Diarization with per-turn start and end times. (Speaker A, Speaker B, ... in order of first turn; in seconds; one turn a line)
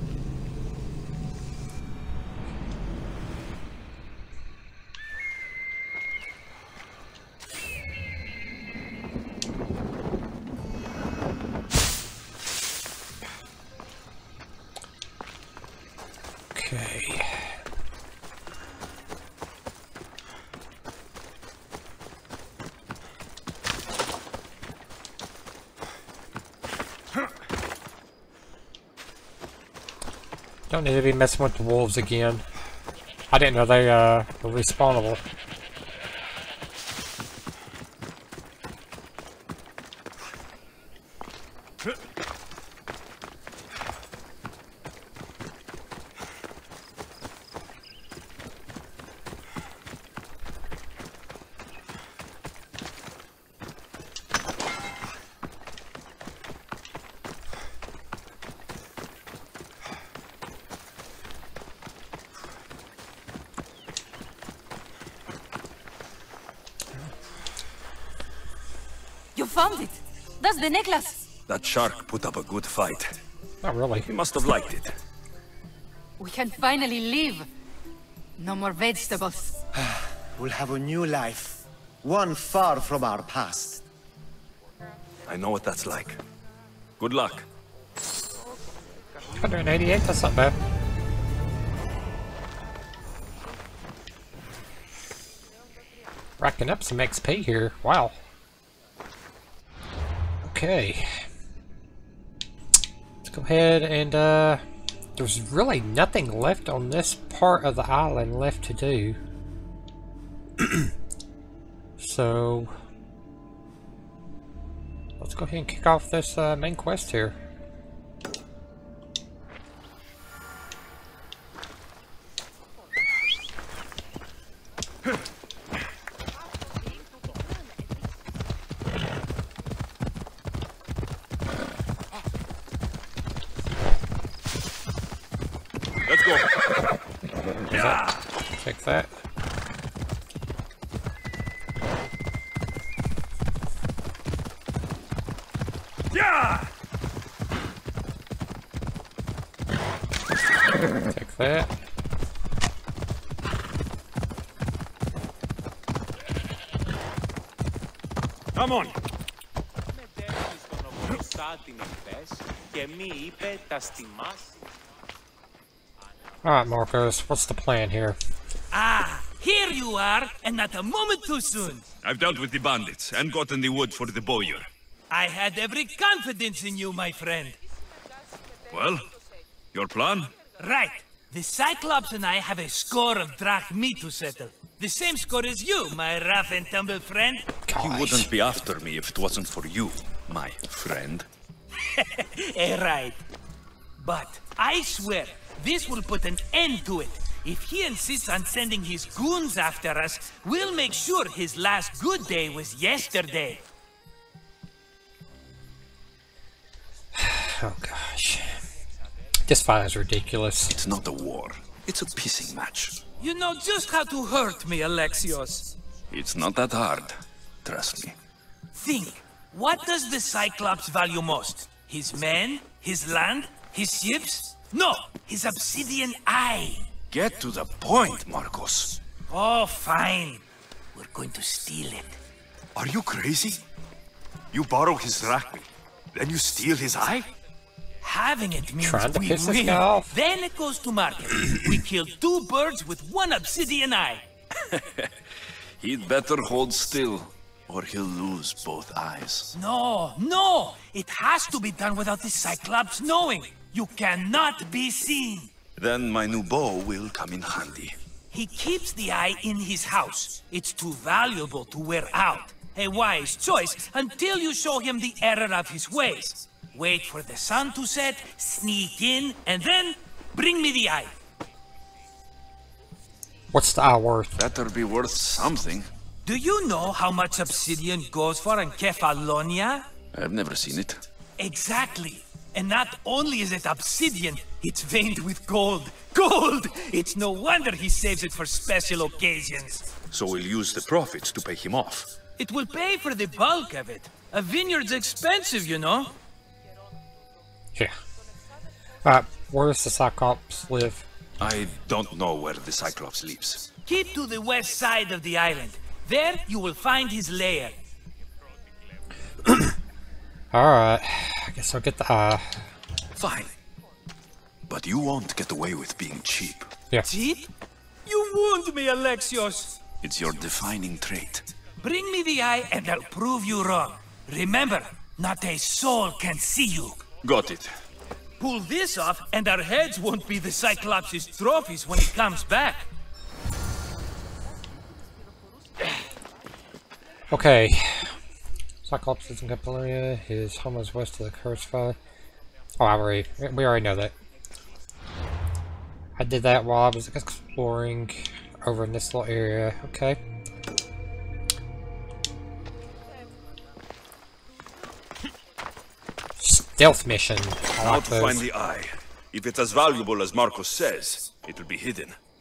Speaker A: 16.5-17.5
Speaker A: 30.7-32.4
Speaker A: 33.3-35.2
Speaker B: 69.3-71.2
Speaker C: 71.5-73.2
Speaker A: 73.6-74.1
Speaker C: 74.0-75.0
Speaker B: 76.2-77.5
Speaker B: 78.4-79.5
Speaker D: 79.8-83.8
Speaker C: 85.2-86.2
Speaker C: 87.0-87.5
Speaker A: 89.3-90.5
Speaker A: 96.4-98.2
Speaker A: 100.4-101.2
Speaker A: 103.2-104.6
Speaker A: 105.2-109.2
Speaker A: 112.0-112.7
Speaker A: 115.2-117.3
Speaker C: 136.1-136.5
Speaker A: 137.7-139.1
Speaker A: 151.1-151.7
Speaker C: 158.5-158.9
Speaker A: 166.4-168.2
Speaker E: 168.7-171.9
Speaker C: 172.0-174.7
Speaker E: 175.1-177.6
Speaker C: 178.7-179.1
Speaker C: 179.7-180.3
Speaker E: 180.6-187.5
Speaker A: 187.7-188.3
Speaker C: 187.7-191.3
Speaker E: 191.8-193.2
Speaker E: 194.0-203.6
Speaker A: 207.1-208.6
Speaker A: 209.5-210.8
Speaker C: 210.7-213.0
Speaker E: 213.2-215.7
Speaker C: 216.1-218.2
Speaker E: 218.7-226.8
Speaker C: 227.1-229.0
Speaker E: 229.3-230.4
Speaker E: 230.9-232.2
Speaker C: 232.7-233.6
Speaker C: 234.5-237.3
Speaker E: 238.0-244.3
Speaker A: 238.8-240.1
Speaker C: 244.6-245.1
Speaker C: 245.8-249.5
Speaker E: 249.5-255.5
Speaker C: 255.8-258.0
Speaker E: 258.3-271.1
Speaker A: 273.5-274.4
Speaker C: 274.4-275.9
Speaker E: 276.2-279.9
Speaker C: 280.1-281.0
Speaker E: 281.4-289.9
Speaker C: 290.1-292.1
Speaker E: 292.4-296.1
Speaker A: 299.0-301.0
Speaker C: 301.4-303.7
Speaker E: 303.8-307.8
Speaker A: 310.5-312.7
Speaker C: 313.1-313.5
Speaker C: 314.7-316.7
Speaker E: 317.0-317.5
Speaker E: 318.1-319.8
Speaker C: 320.0-321.5
Speaker E: 321.8-327.0
Speaker C: 327.2-327.8
Speaker E: 328.4-332.9
Speaker A: 337.3-338.2
Speaker A: 338.9-342.0
Speaker A: 342.8-344.1
Speaker A: 346.2-350.2
Speaker A: 356.4-358.4
Speaker C: 357.8-362.2